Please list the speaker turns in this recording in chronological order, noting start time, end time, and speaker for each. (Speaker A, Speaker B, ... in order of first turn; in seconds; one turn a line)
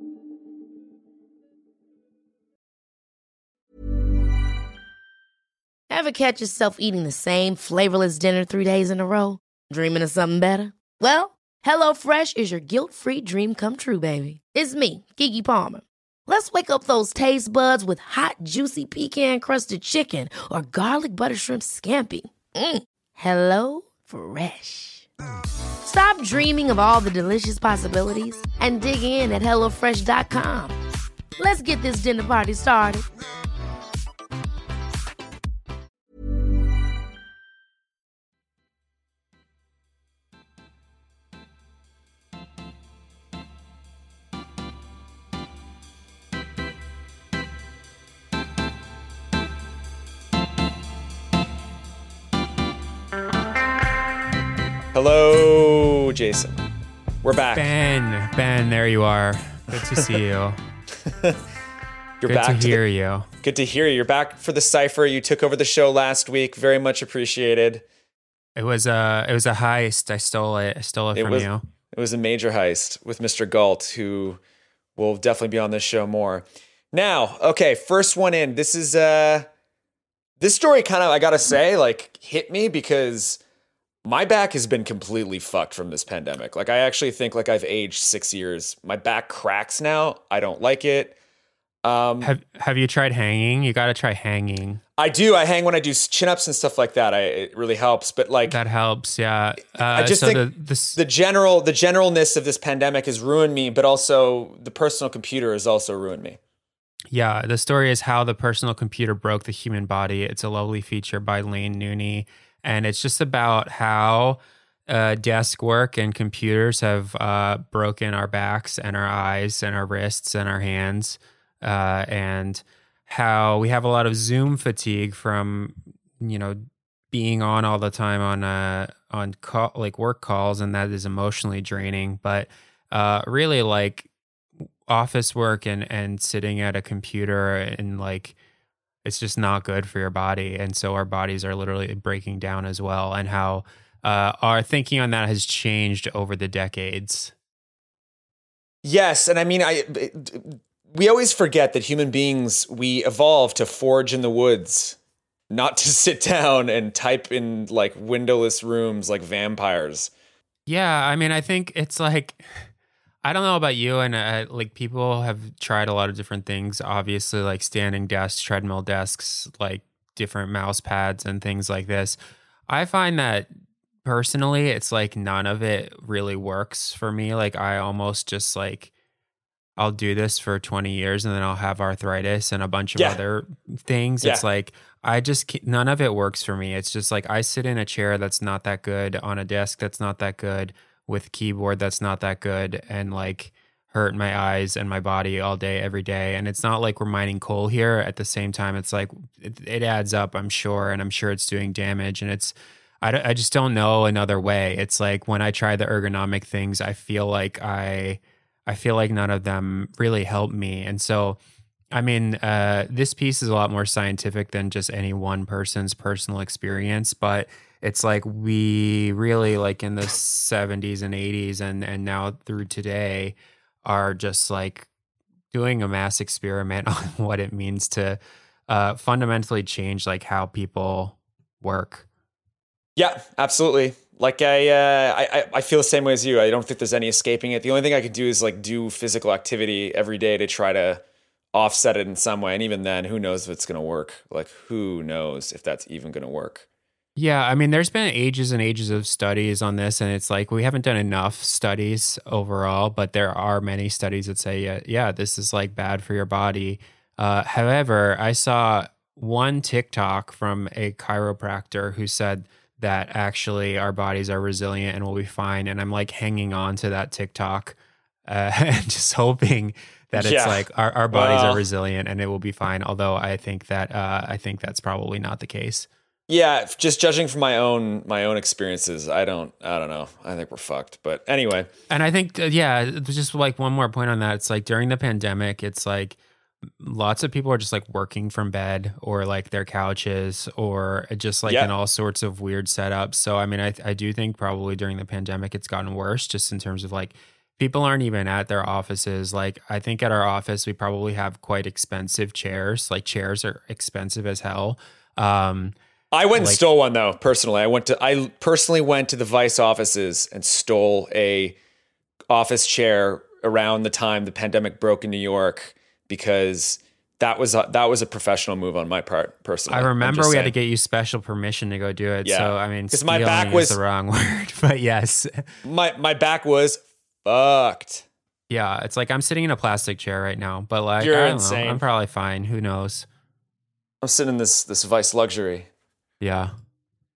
Speaker A: 5.9-25.1
Speaker A: 25.8-30.8
Speaker A: 31.4-33.0
Speaker B: 54.9-56.6
Speaker B: 57.2-57.6
Speaker C: 57.5-60.6
Speaker B: 61.1-61.4
Speaker B: 62.2-62.8
Speaker C: 62.2-63.3
Speaker B: 63.4-67.8
Speaker C: 68.6-71.6
Speaker B: 71.1-74.4
Speaker B: 75.0-79.5
Speaker B: 80.4-83.4
Speaker B: 84.0-91.2
Speaker B: 91.8-92.3
Speaker C: 92.2-94.8
Speaker B: 95.0-98.6
Speaker C: 98.5-101.0
Speaker B: 99.9-106.4
Speaker C: 107.1-134.1
Speaker C: 134.9-138.4
Speaker C: 139.0-147.3
Speaker B: 148.8-155.0
Speaker B: 155.5-160.1
Speaker C: 160.7-162.7
Speaker C: 163.2-172.2
Speaker C: 172.7-173.5
Speaker C: 174.0-178.9
Speaker C: 179.8-211.4
Speaker C: 211.9-224.9
Speaker C: 225.5-232.1
Speaker B: 233.0-241.0
Speaker B: 241.5-246.7
Speaker C: 247.2-275.9
Speaker B: 270.2-271.6
Speaker B: 276.3-281.7
Speaker C: 281.9-286.2
Speaker C: 286.8-305.8
Speaker B: 291.5-291.7
Speaker B: 306.1-311.6
Speaker C: 306.3-306.6
Speaker B: 312.3-320.5
Speaker C: 319.7-325.4
Speaker B: 322.2-323.8
Speaker B: 325.6-328.1
Speaker C: 328.5-333.1
Speaker B: 331.0-331.8
Speaker B: 334.0-335.7
Speaker C: 336.2-336.5